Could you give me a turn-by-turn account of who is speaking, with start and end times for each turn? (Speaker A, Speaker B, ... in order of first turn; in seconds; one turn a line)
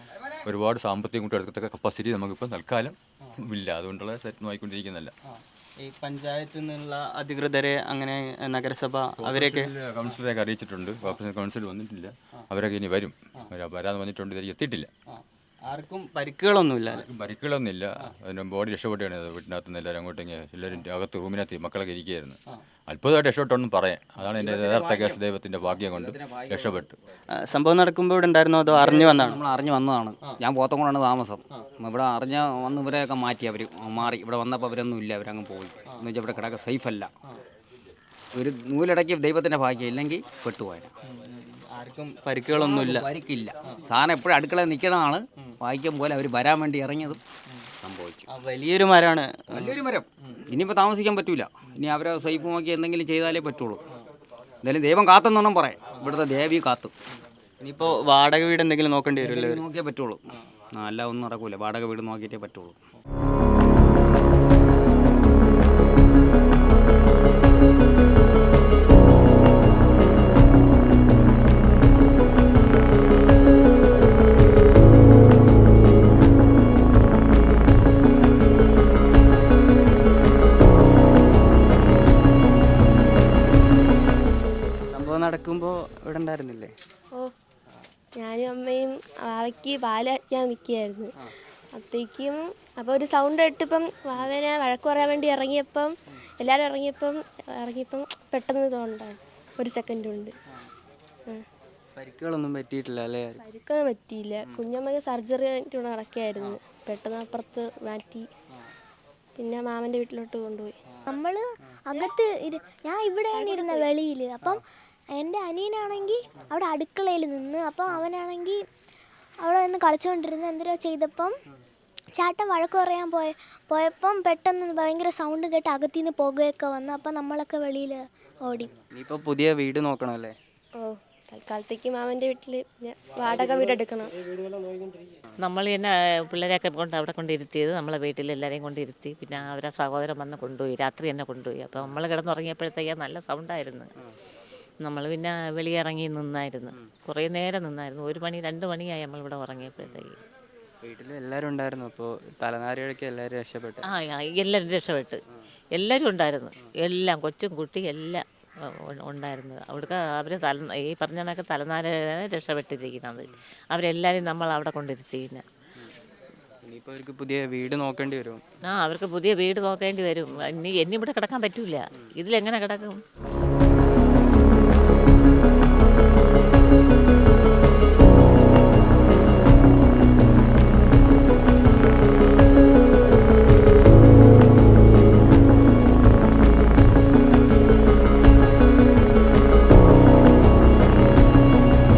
Speaker A: 0.4-5.1
Speaker B: 5.3-9.7
Speaker A: 9.2-14.9
Speaker B: 15.1-17.0
Speaker A: 16.9-26.9
Speaker C: 24.3-25.2
Speaker C: 25.8-26.8
Speaker B: 27.3-29.4
Speaker C: 28.7-37.1
Speaker C: 38.3-40.9
Speaker B: 41.0-43.1
Speaker C: 42.5-47.2
Speaker C: 47.8-48.2
Speaker B: 48.3-49.8
Speaker C: 49.5-53.8
Speaker C: 54.6-56.9
Speaker B: 57.6-59.6
Speaker C: 59.2-62.8
Speaker B: 84.8-86.7
Speaker D: 88.2-91.1
Speaker D: 91.7-100.3
Speaker B: 102.0-103.4
Speaker D: 103.4-108.3
Speaker D: 109.4-110.7
Speaker E: 111.1-114.6
Speaker D: 113.3-113.9
Speaker E: 115.2-118.6
Speaker E: 119.4-121.3
Speaker E: 122.1-128.7
Speaker B: 128.9-130.3
Speaker D: 130.8-134.1
Speaker F: 135.4-143.9
Speaker F: 144.8-150.2
Speaker B: 150.8-153.8
Speaker F: 153.9-155.2
Speaker F: 155.7-158.2
Speaker F: 158.9-165.4
Speaker B: 166.6-168.4
Speaker F: 168.7-173.0